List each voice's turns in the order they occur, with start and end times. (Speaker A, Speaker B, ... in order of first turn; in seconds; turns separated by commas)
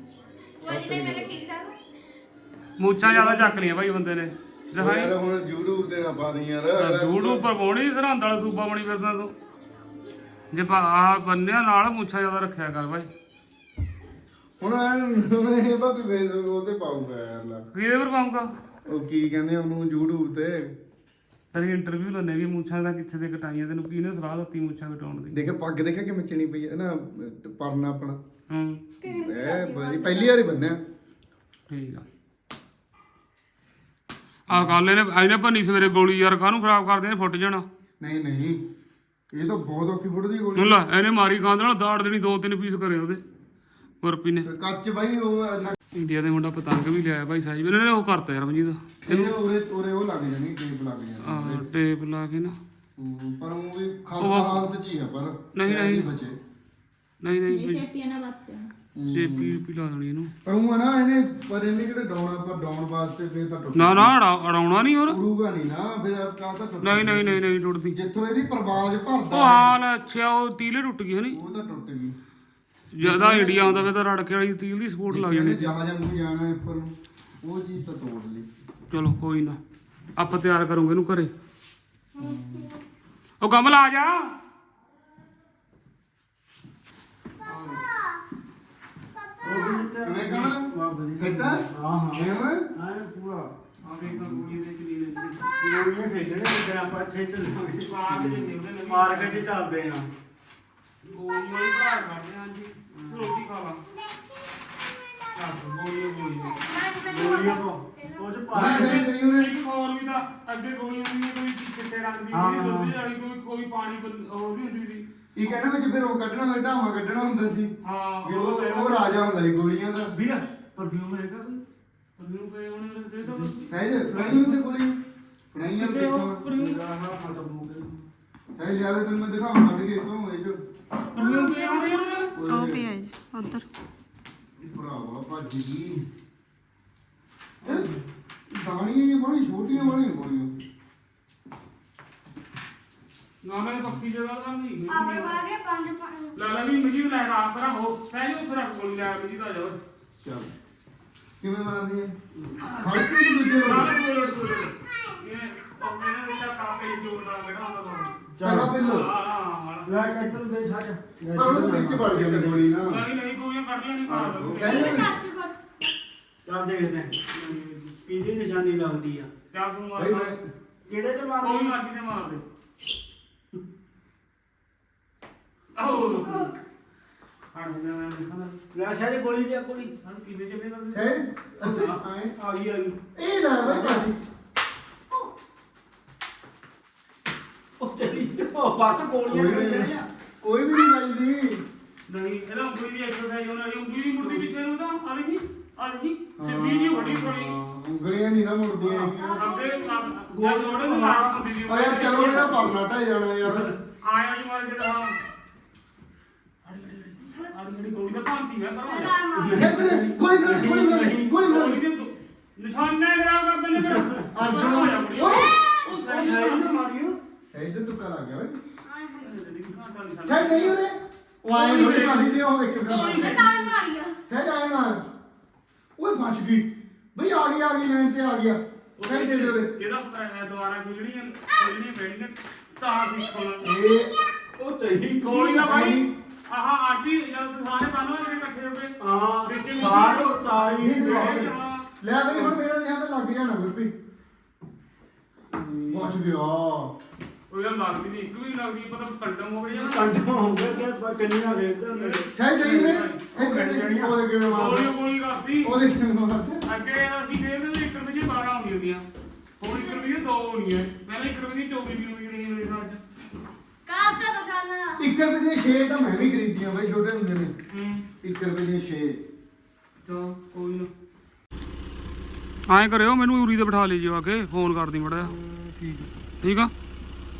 Speaker A: 0.6-1.4, Speaker B: 0.7-1.7, Speaker C: 2.8-5.1, Speaker A: 3.0-3.7, Speaker A: 4.8-7.5, Speaker C: 6.7-9.3, Speaker C: 10.5-13.1, Speaker A: 14.6-17.6, Speaker C: 17.7-18.5, Speaker A: 18.9-20.7, Speaker C: 21.5-25.4, Speaker A: 25.3-28.2, Speaker C: 28.5-28.8, Speaker A: 29.0-30.8, Speaker B: 29.2-30.1, Speaker C: 31.7-32.0, Speaker C: 34.5-37.6, Speaker A: 34.5-34.8, Speaker A: 38.0-38.6, Speaker A: 39.3-40.8, Speaker C: 40.5-43.2, Speaker C: 44.0-44.5, Speaker A: 44.4-45.8, Speaker C: 45.9-49.4, Speaker A: 49.0-51.7, Speaker C: 51.2-52.6, Speaker A: 53.0-56.4, Speaker C: 54.2-54.7, Speaker C: 55.5-56.1, Speaker C: 57.2-57.9, Speaker D: 57.5-58.7, Speaker A: 58.9-59.5, Speaker C: 59.1-60.3, Speaker A: 60.4-64.1, Speaker C: 63.7-65.2, Speaker A: 65.1-69.8, Speaker C: 66.8-68.0, Speaker C: 69.3-71.4, Speaker A: 71.3-72.2, Speaker C: 72.9-75.7, Speaker A: 73.0-73.9, Speaker A: 75.1-78.5, Speaker C: 78.9-79.6, Speaker C: 80.2-81.3, Speaker A: 82.2-82.7, Speaker C: 83.4-84.3, Speaker C: 87.4-87.8, Speaker E: 89.4-93.5, Speaker A: 89.5-92.7, Speaker C: 93.8-95.5, Speaker A: 93.8-94.4, Speaker E: 95.6-100.1, Speaker C: 97.8-99.5, Speaker C: 101.0-103.8, Speaker E: 103.0-103.3, Speaker C: 105.3-106.6, Speaker B: 106.7-107.6, Speaker E: 107.0-109.0, Speaker A: 108.5-109.5, Speaker C: 108.5-115.0, Speaker E: 112.3-112.9, Speaker A: 115.3-120.1, Speaker C: 117.8-119.2, Speaker E: 120.1-121.6, Speaker C: 122.2-124.6, Speaker E: 123.2-123.5, Speaker A: 123.7-125.0, Speaker A: 125.5-126.5, Speaker C: 125.7-126.8, Speaker E: 126.5-128.0, Speaker A: 128.5-130.6, Speaker C: 131.1-132.3, Speaker A: 131.1-131.6, Speaker A: 132.3-132.9, Speaker D: 132.5-133.6, Speaker B: 132.6-132.8, Speaker A: 134.6-136.1, Speaker A: 137.6-137.9, Speaker E: 137.6-137.9, Speaker A: 138.5-140.5, Speaker C: 143.4-145.4, Speaker D: 145.1-146.0, Speaker B: 145.6-146.3, Speaker C: 146.3-149.8, Speaker A: 150.2-150.5, Speaker A: 151.4-152.1, Speaker C: 152.6-158.1, Speaker A: 152.8-153.9, Speaker E: 158.3-158.8, Speaker A: 158.4-159.1, Speaker C: 158.7-159.9, Speaker E: 159.8-162.6, Speaker A: 161.3-163.0, Speaker C: 162.8-165.1, Speaker E: 164.1-164.7, Speaker A: 164.2-165.2, Speaker B: 164.9-165.5, Speaker E: 166.4-169.3, Speaker C: 169.5-170.3, Speaker A: 169.9-170.4, Speaker E: 170.8-171.8, Speaker C: 171.4-172.4, Speaker C: 175.8-176.5, Speaker C: 177.5-178.6, Speaker E: 178.7-181.0, Speaker A: 180.9-182.3, Speaker C: 181.6-181.9, Speaker E: 182.3-183.0, Speaker A: 183.1-184.1, Speaker E: 183.6-184.1, Speaker E: 187.8-190.1, Speaker A: 189.3-191.6, Speaker C: 192.1-197.5, Speaker A: 196.4-199.4, Speaker E: 198.8-199.2, Speaker C: 199.2-202.7, Speaker D: 199.4-199.8, Speaker E: 200.2-201.4, Speaker A: 201.6-203.7, Speaker C: 203.4-205.2, Speaker C: 206.6-210.1, Speaker B: 209.0-209.5, Speaker E: 209.4-211.4, Speaker A: 209.5-211.8, Speaker C: 211.4-216.8, Speaker E: 213.8-214.2, Speaker A: 214.3-215.5, Speaker B: 215.3-215.6, Speaker E: 215.9-217.2, Speaker A: 217.5-218.6, Speaker C: 219.2-220.8, Speaker A: 220.3-223.4, Speaker C: 221.4-223.7, Speaker B: 223.3-224.2, Speaker A: 224.3-225.0, Speaker A: 226.0-229.7, Speaker C: 229.0-233.7, Speaker A: 233.6-234.1, Speaker E: 234.6-235.7, Speaker C: 235.2-240.4, Speaker A: 235.6-236.1, Speaker E: 239.0-241.5, Speaker A: 240.8-243.9, Speaker C: 240.9-241.8, Speaker E: 242.3-242.6, Speaker E: 245.6-246.0, Speaker A: 245.9-246.9, Speaker C: 247.5-250.7, Speaker E: 249.7-252.3, Speaker C: 251.9-253.2, Speaker A: 252.3-254.9, Speaker E: 253.3-254.2, Speaker C: 254.5-255.7, Speaker A: 255.6-256.6, Speaker C: 256.6-259.0, Speaker C: 259.6-263.0, Speaker B: 263.9-265.0, Speaker D: 264.2-264.8, Speaker A: 265.0-267.5, Speaker C: 267.7-268.1, Speaker A: 268.2-269.2, Speaker C: 270.0-270.9, Speaker C: 272.6-275.3, Speaker A: 275.2-276.1, Speaker C: 276.4-276.7